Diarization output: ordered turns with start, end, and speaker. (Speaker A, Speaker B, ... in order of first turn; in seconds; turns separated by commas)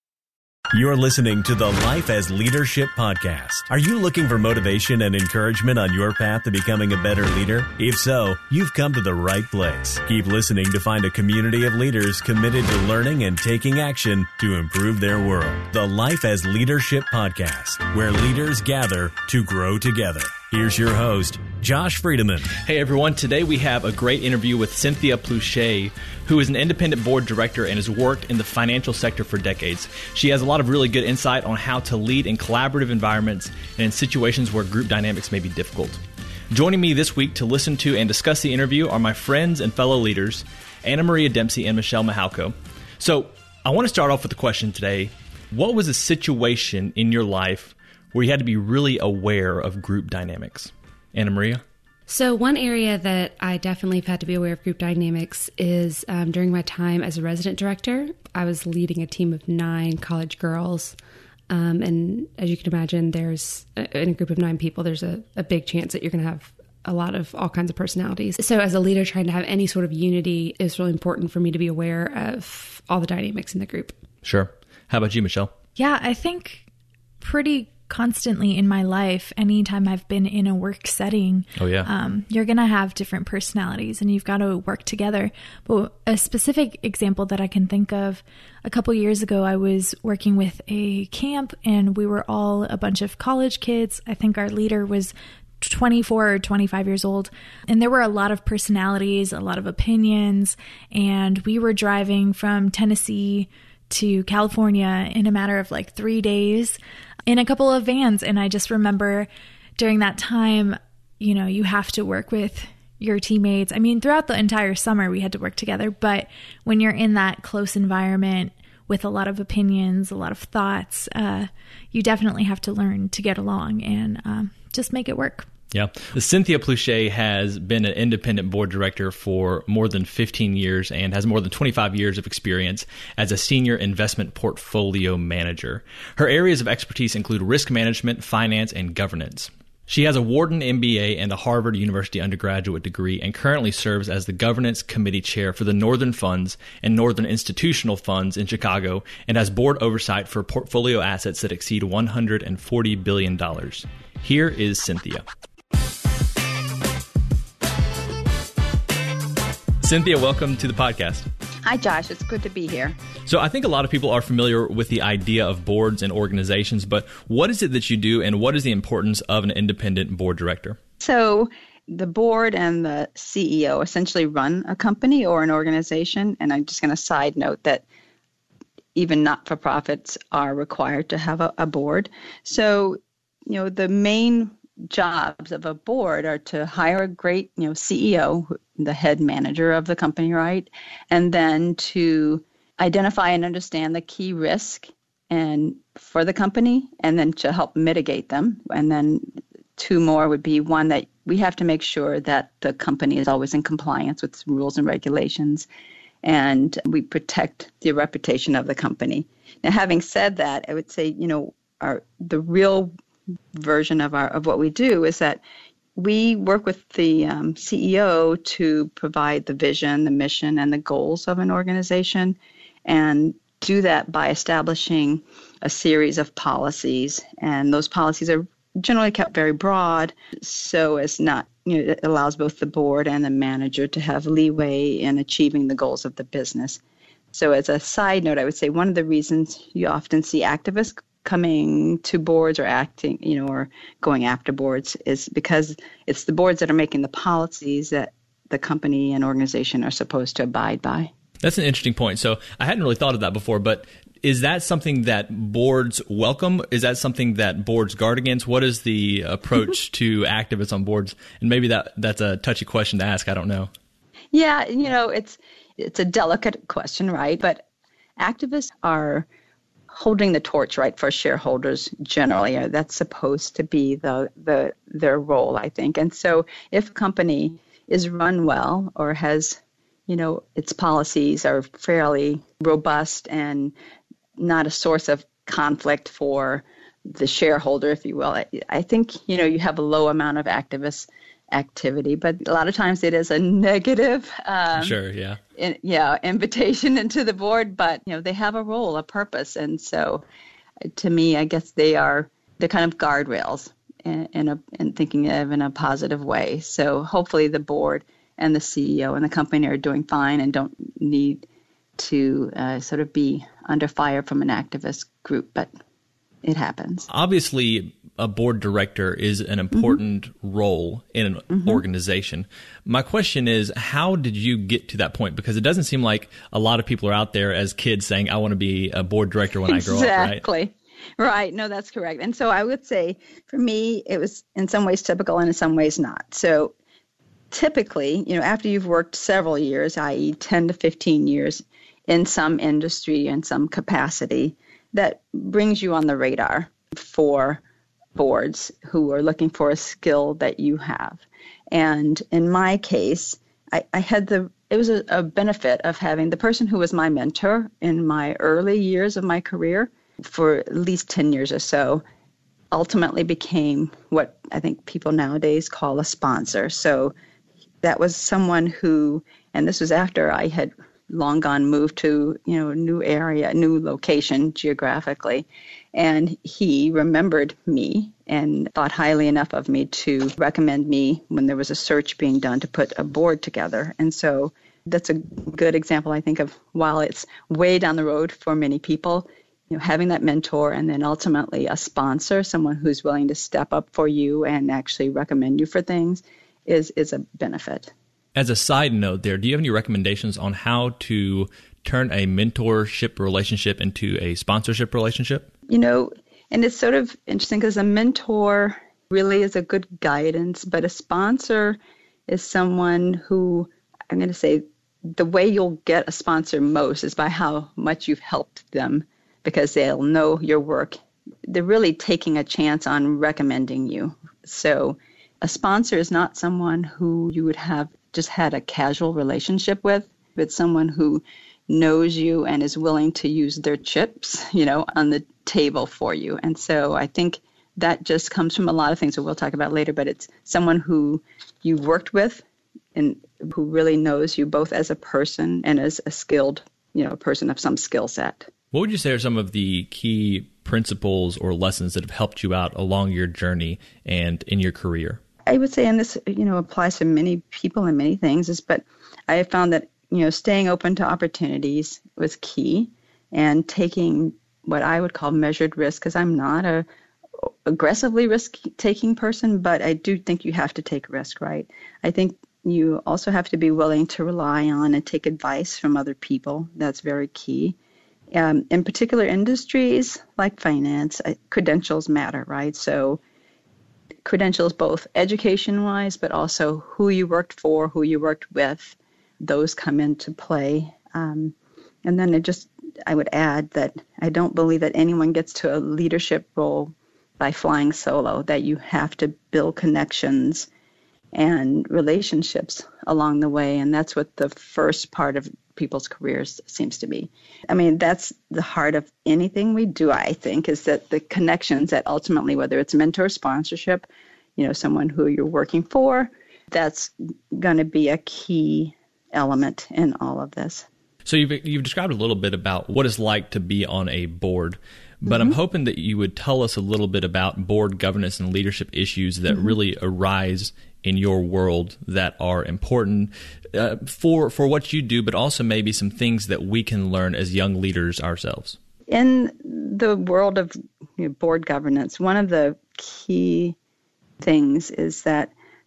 Speaker A: 0.7-22.5, Speaker B: 22.5-51.6, Speaker C: 52.1-61.0, Speaker C: 61.5-73.9, Speaker B: 74.2-75.5, Speaker D: 75.8-76.7, Speaker D: 77.2-125.5, Speaker B: 81.5-81.9, Speaker B: 125.7-155.2, Speaker B: 159.8-161.3, Speaker E: 161.6-162.9, Speaker B: 163.2-170.8, Speaker E: 171.0-177.8, Speaker E: 178.9-205.7, Speaker E: 206.2-212.9, Speaker E: 213.5-215.4, Speaker E: 215.9-236.8, Speaker E: 237.3-251.1, Speaker B: 251.4-263.7, Speaker E: 264.3-267.6, Speaker E: 268.2-269.3, Speaker E: 269.9-283.7, Speaker E: 284.4-295.0, Speaker B: 294.7-295.4, Speaker E: 295.5-300.2, Speaker E: 300.9-311.4, Speaker E: 312.0-315.7, Speaker E: 316.4-317.1, Speaker B: 317.1-330.4, Speaker E: 321.5-321.8, Speaker E: 329.7-336.7, Speaker E: 337.5-347.6, Speaker E: 348.1-362.0, Speaker E: 362.7-367.1, Speaker E: 367.8-397.9, Speaker B: 398.3-405.5, Speaker E: 405.7-448.5, Speaker B: 448.7-455.2, Speaker E: 455.4-466.9, Speaker E: 467.4-477.8, Speaker E: 478.3-483.2, Speaker E: 484.2-500.7, Speaker E: 501.3-520.9, Speaker B: 521.2-538.8, Speaker E: 525.3-525.5, Speaker E: 539.1-543.8, Speaker E: 544.4-545.5